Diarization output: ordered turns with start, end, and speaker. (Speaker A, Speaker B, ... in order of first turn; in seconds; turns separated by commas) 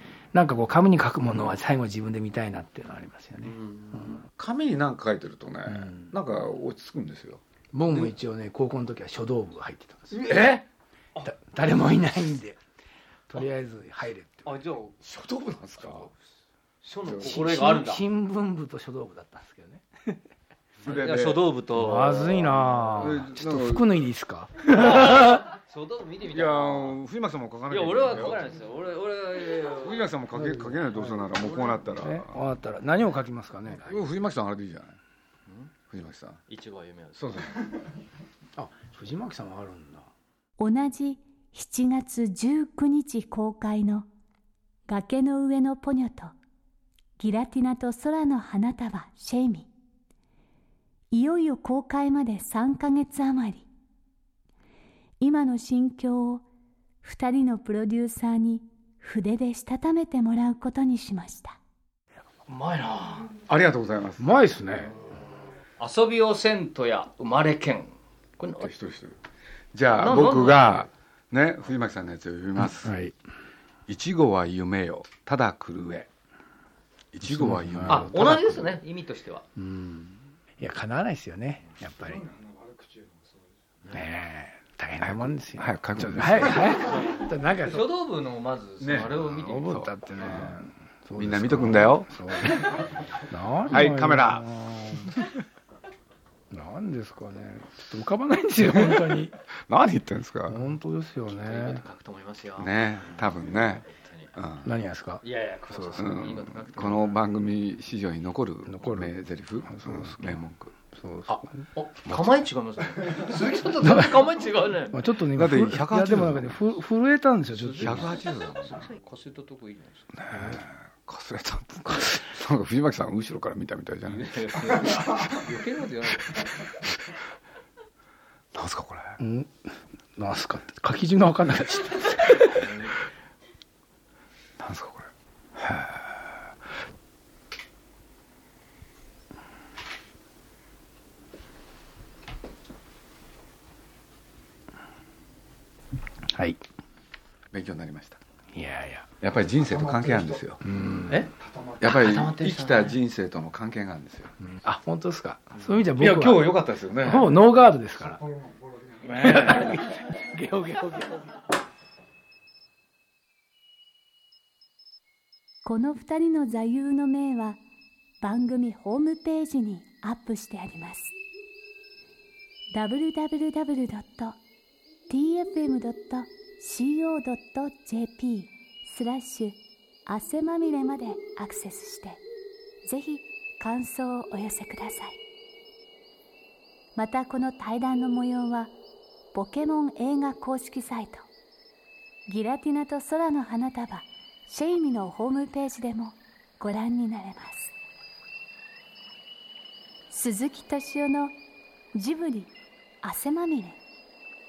Speaker A: 0.3-4.2, Speaker B: 3.4-4.2, Speaker C: 4.3-7.4, Speaker A: 5.7-6.1, Speaker A: 7.7-10.3, Speaker B: 10.1-10.6, Speaker C: 10.2-10.6, Speaker A: 11.2-12.6, Speaker A: 13.3-14.5, Speaker B: 14.4-15.0, Speaker C: 15.0-16.1, Speaker B: 16.8-18.0, Speaker C: 17.0-17.4, Speaker A: 17.2-20.2, Speaker C: 20.8-21.5, Speaker B: 20.8-22.6, Speaker A: 21.7-25.4, Speaker C: 22.9-23.9, Speaker B: 24.7-27.0, Speaker C: 26.3-28.4, Speaker B: 27.7-30.1, Speaker C: 29.8-32.4, Speaker A: 30.3-34.0, Speaker C: 33.7-35.0, Speaker C: 35.9-36.4, Speaker B: 36.5-37.5, Speaker C: 37.2-37.7, Speaker A: 38.5-40.1, Speaker D: 40.6-44.1, Speaker D: 44.9-46.3, Speaker D: 47.2-49.7, Speaker D: 51.1-53.7, Speaker D: 55.2-56.4, Speaker D: 57.0-61.6, Speaker B: 62.5-63.3, Speaker C: 63.5-64.2, Speaker A: 64.2-64.9, Speaker B: 65.8-68.7, Speaker C: 68.6-69.2, Speaker C: 69.7-72.9, Speaker B: 70.0-70.9, Speaker A: 72.8-73.2, Speaker C: 73.9-76.1, Speaker C: 77.1-78.6, Speaker A: 77.2-78.4, Speaker B: 77.9-79.4, Speaker A: 79.5-82.3, Speaker A: 83.9-87.9, Speaker C: 85.6-86.8, Speaker B: 86.6-89.9, Speaker C: 88.8-90.5, Speaker A: 89.4-95.2, Speaker C: 91.2-92.8, Speaker C: 93.7-95.3, Speaker A: 96.5-99.3, Speaker C: 98.7-99.1, Speaker C: 99.7-100.6, Speaker A: 100.5-101.8, Speaker B: 101.3-104.3, Speaker C: 102.6-104.7, Speaker A: 104.6-106.0, Speaker B: 105.2-107.2, Speaker C: 105.9-110.7, Speaker A: 108.7-109.1, Speaker A: 109.6-110.3, Speaker A: 110.9-111.4, Speaker B: 111.3-115.0, Speaker A: 113.8-114.1, Speaker A: 114.9-118.1, Speaker C: 115.3-116.6, Speaker B: 117.6-120.1, Speaker C: 117.8-118.8, Speaker C: 120.2-125.4, Speaker A: 120.3-120.6, Speaker B: 124.1-126.5, Speaker C: 128.5-129.2, Speaker A: 129.2-132.7, Speaker C: 134.6-135.1, Speaker A: 146.3-146.6, Speaker C: 147.5-148.2, Speaker A: 148.5-149.1, Speaker C: 149.2-150.6, Speaker A: 150.6-151.3, Speaker B: 151.1-153.0, Speaker C: 151.8-154.3, Speaker A: 154.4-158.2, Speaker C: 155.9-157.4, Speaker C: 158.3-159.0, Speaker A: 159.0-161.4, Speaker D: 165.6-167.6, Speaker D: 168.2-171.1, Speaker D: 172.7-174.4, Speaker D: 175.1-182.2, Speaker D: 182.8-185.2, Speaker D: 186.9-188.7, Speaker D: 189.3-191.3, Speaker D: 192.2-197.7, Speaker D: 200.1-201.3, Speaker D: 201.9-203.8